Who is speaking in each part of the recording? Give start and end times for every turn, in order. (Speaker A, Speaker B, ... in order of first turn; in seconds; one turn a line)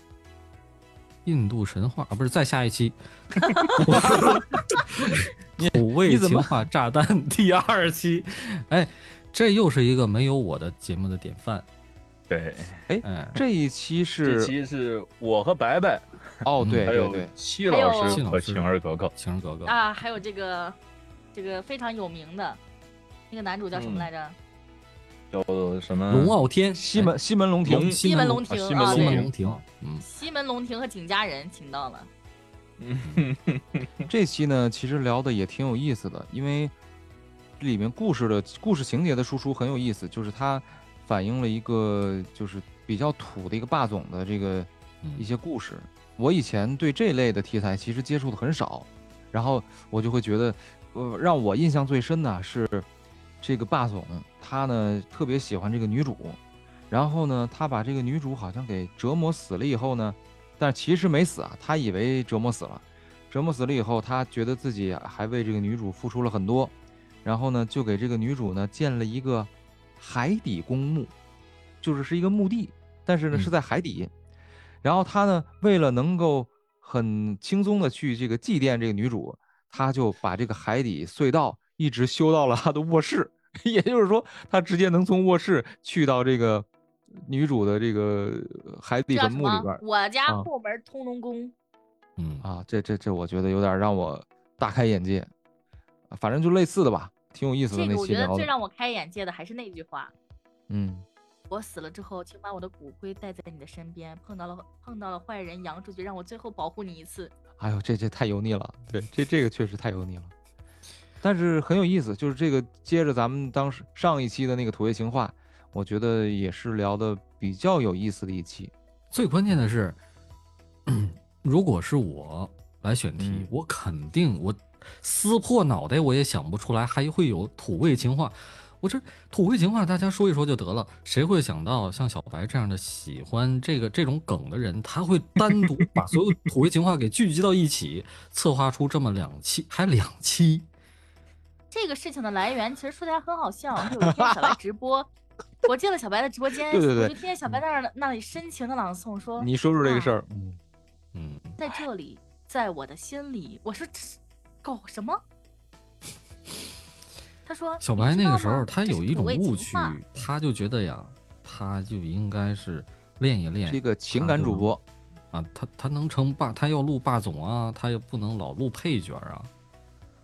Speaker A: 1.2-11.7
Speaker B: 3.5-3.7
Speaker C: 4.0-4.4
Speaker C: 5.6-6.5
Speaker D: 12.3-12.8
Speaker C: 12.9-14.5
Speaker A: 13.0-13.4
Speaker D: 14.2-16.1
Speaker C: 16.4-17.3
Speaker A: 16.6-16.9
Speaker D: 16.9-19.1
Speaker B: 17.7-18.2
Speaker A: 18.0-19.8
Speaker B: 19.6-20.8
Speaker B: 21.3-22.6
Speaker B: 23.3-24.4
Speaker D: 23.7-24.1
Speaker D: 25.3-26.4
Speaker A: 26.1-27.1
Speaker C: 26.8-28.0
Speaker D: 27.6-29.3
Speaker A: 27.7-30.1
Speaker B: 28.0-29.3
Speaker B: 30.0-32.1
Speaker D: 32.8-33.9
Speaker C: 34.1-36.7
Speaker C: 37.6-52.9
Speaker A: 45.0-45.3
Speaker C: 53.4-56.4
Speaker C: 56.9-71.1
Speaker C: 71.8-74.1
Speaker C: 74.8-90.5
Speaker B: 89.1-91.5
Speaker A: 92.2-92.5
Speaker C: 92.4-95.3
Speaker C: 96.1-98.5
Speaker B: 97.7-100.1
Speaker C: 100.7-101.0
Speaker B: 101.5-107.3
Speaker C: 107.6-110.3
Speaker C: 111.2-118.7
Speaker A: 119.1-120.0
Speaker A: 120.9-140.7
Speaker C: 123.2-123.5
Speaker B: 141.7-145.1
Speaker C: 144.2-144.5
Speaker B: 145.6-150.1
Speaker C: 146.7-147.2
Speaker C: 149.4-150.6
Speaker A: 151.1-151.6
Speaker B: 151.6-155.2
Speaker B: 157.4-159.9
Speaker A: 157.8-164.7
Speaker C: 163.7-164.8
Speaker A: 165.3-169.5